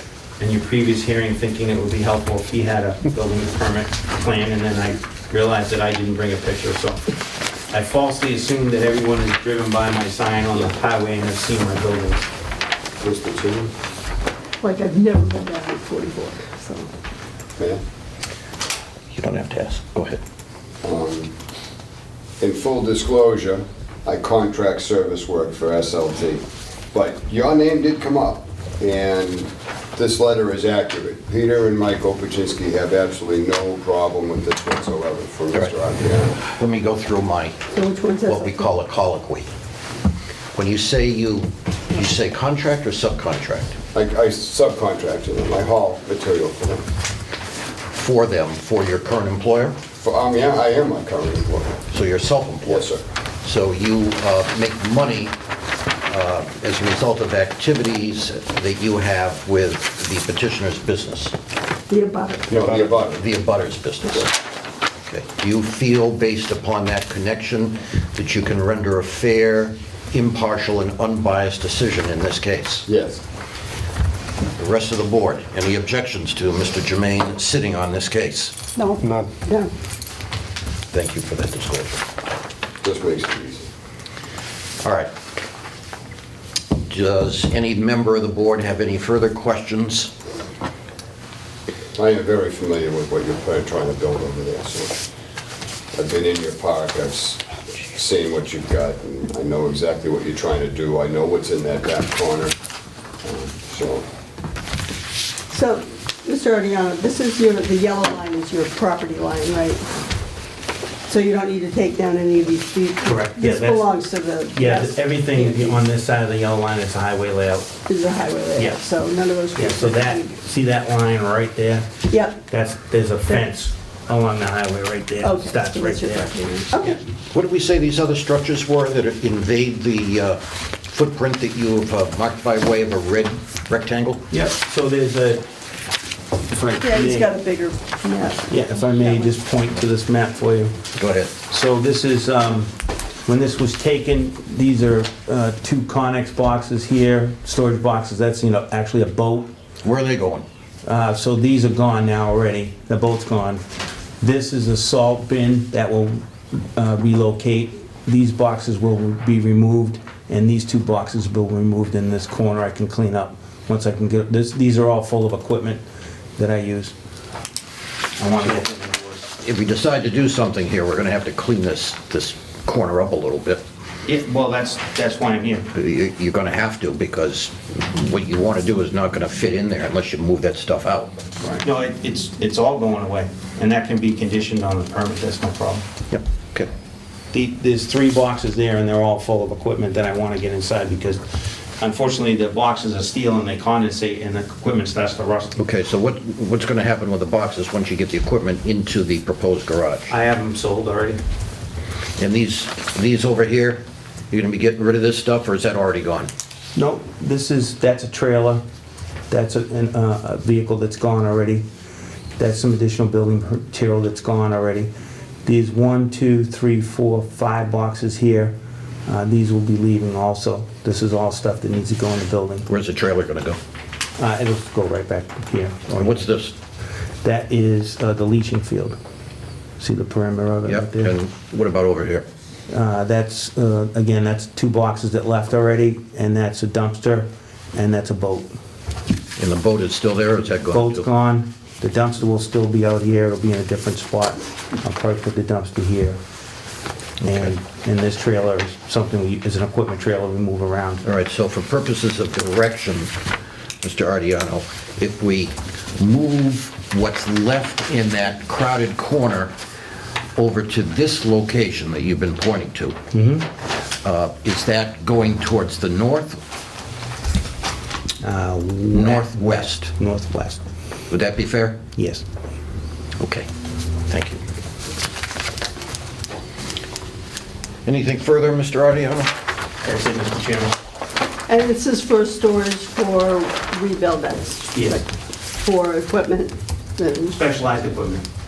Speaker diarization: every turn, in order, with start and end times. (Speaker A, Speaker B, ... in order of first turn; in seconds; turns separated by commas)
Speaker A: 0.4-7.2, Speaker A: 7.7-12.2, Speaker B: 13.0-13.7, Speaker C: 14.6-16.9, Speaker D: 19.1-20.2, Speaker B: 20.8-21.3, Speaker B: 22.4-36.4, Speaker D: 36.4-37.6, Speaker C: 37.7-38.7, Speaker D: 38.2-39.5, Speaker D: 40.5-43.8, Speaker B: 43.9-46.8, Speaker D: 47.9-49.8, Speaker B: 50.0-51.8, Speaker D: 51.9-55.3, Speaker B: 52.6-53.0, Speaker D: 56.1-61.3, Speaker C: 61.9-62.5, Speaker B: 62.5-63.2, Speaker D: 62.9-64.4, Speaker D: 65.0-72.9, Speaker B: 72.8-73.2, Speaker D: 74.6-78.5, Speaker C: 78.8-79.7, Speaker D: 80.9-82.0, Speaker B: 82.8-83.7, Speaker D: 84.8-85.1, Speaker D: 86.9-90.1, Speaker B: 91.9-95.0, Speaker B: 95.9-102.5, Speaker B: 103.2-104.0, Speaker C: 105.5-110.0, Speaker C: 111.0-115.8, Speaker A: 113.0-113.9, Speaker A: 114.5-117.7, Speaker C: 117.9-120.4, Speaker A: 118.5-118.9, Speaker A: 119.5-121.9, Speaker C: 122.1-122.4, Speaker A: 122.5-127.0, Speaker C: 125.2-127.0, Speaker D: 127.3-134.2, Speaker A: 134.3-135.4, Speaker A: 136.5-137.3, Speaker C: 136.8-139.3, Speaker A: 138.5-140.8, Speaker D: 140.9-141.3, Speaker A: 141.5-142.7, Speaker A: 143.2-149.5, Speaker D: 149.8-150.4, Speaker A: 150.8-153.6, Speaker A: 154.2-165.8, Speaker A: 166.3-166.9, Speaker A: 168.2-169.3, Speaker D: 169.4-173.6, Speaker A: 174.0-175.7, Speaker D: 175.7-181.2, Speaker A: 181.6-185.8, Speaker D: 186.1-186.7, Speaker A: 187.3-195.6, Speaker D: 195.6-200.1, Speaker A: 200.1-201.2, Speaker D: 202.2-206.3, Speaker A: 206.8-208.6, Speaker A: 209.3-211.7, Speaker A: 212.4-214.9, Speaker A: 215.4-218.5, Speaker A: 219.1-222.7, Speaker D: 222.7-223.6, Speaker A: 224.2-226.3, Speaker D: 225.9-226.5, Speaker A: 227.2-229.0, Speaker A: 229.8-231.1, Speaker D: 230.7-232.2, Speaker A: 232.7-238.5, Speaker D: 239.4-241.1, Speaker A: 240.7-246.2, Speaker D: 247.2-247.5, Speaker A: 247.2-251.0, Speaker D: 251.0-253.1, Speaker D: 253.8-259.5, Speaker D: 260.4-263.0, Speaker A: 263.1-263.5, Speaker D: 264.0-266.4, Speaker A: 268.2-270.6, Speaker D: 268.9-269.9, Speaker D: 271.1-271.8, Speaker A: 272.0-272.2, Speaker D: 273.2-273.5, Speaker D: 274.1-274.4, Speaker D: 277.9-279.3, Speaker A: 279.8-280.8, Speaker C: 281.5-287.4, Speaker A: 284.7-285.0, Speaker A: 287.3-288.2